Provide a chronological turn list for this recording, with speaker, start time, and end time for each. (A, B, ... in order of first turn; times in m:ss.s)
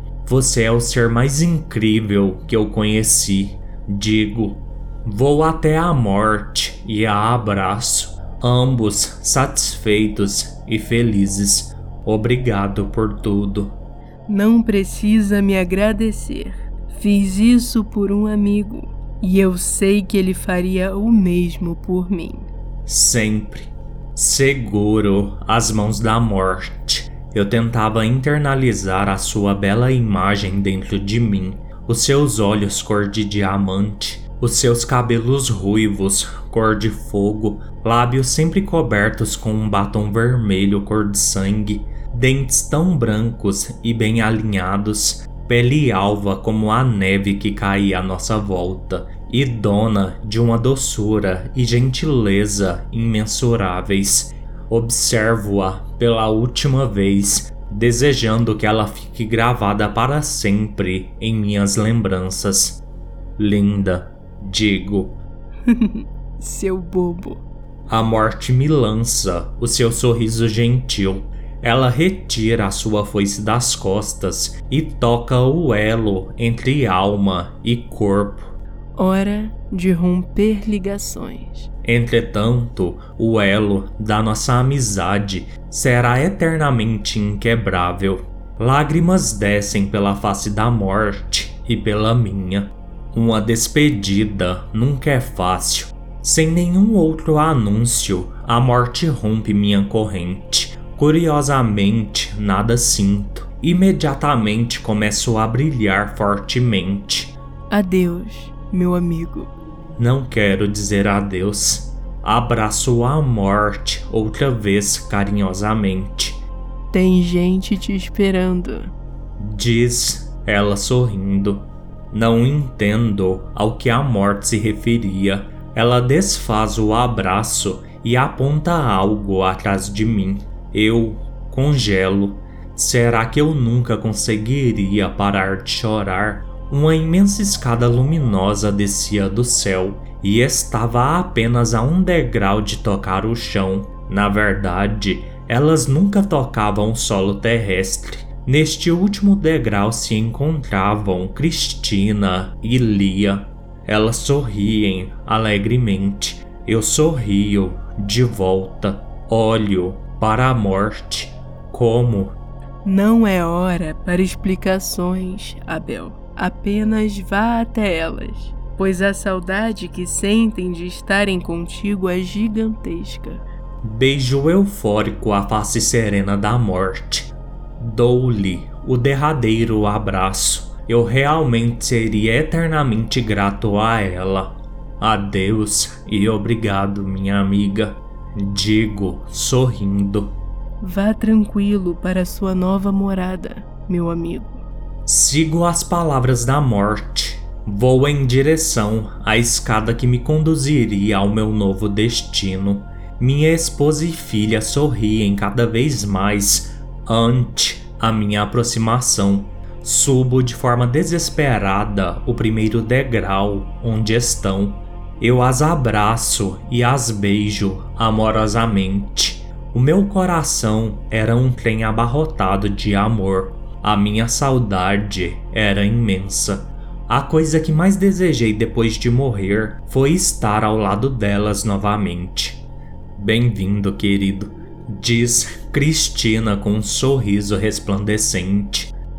0:00.2-0:13.7 A
0:14.3-0:22.5 B
0:22.9-1:02.8 A
1:03.4-1:05.2 A
1:05.6-1:07.4 B
1:07.9-1:18.5 A
1:19.0-1:21.7 B
1:21.8-1:47.4 A
1:47.7-1:49.5 B
1:50.0-1:56.4 A
1:56.9-1:58.9 B
1:59.4-2:42.4 A
2:42.8-2:53.4 B
2:53.8-3:10.3 A
3:10.8-3:14.6 B
3:15.0-3:52.6 A
3:53.2-3:58.9 A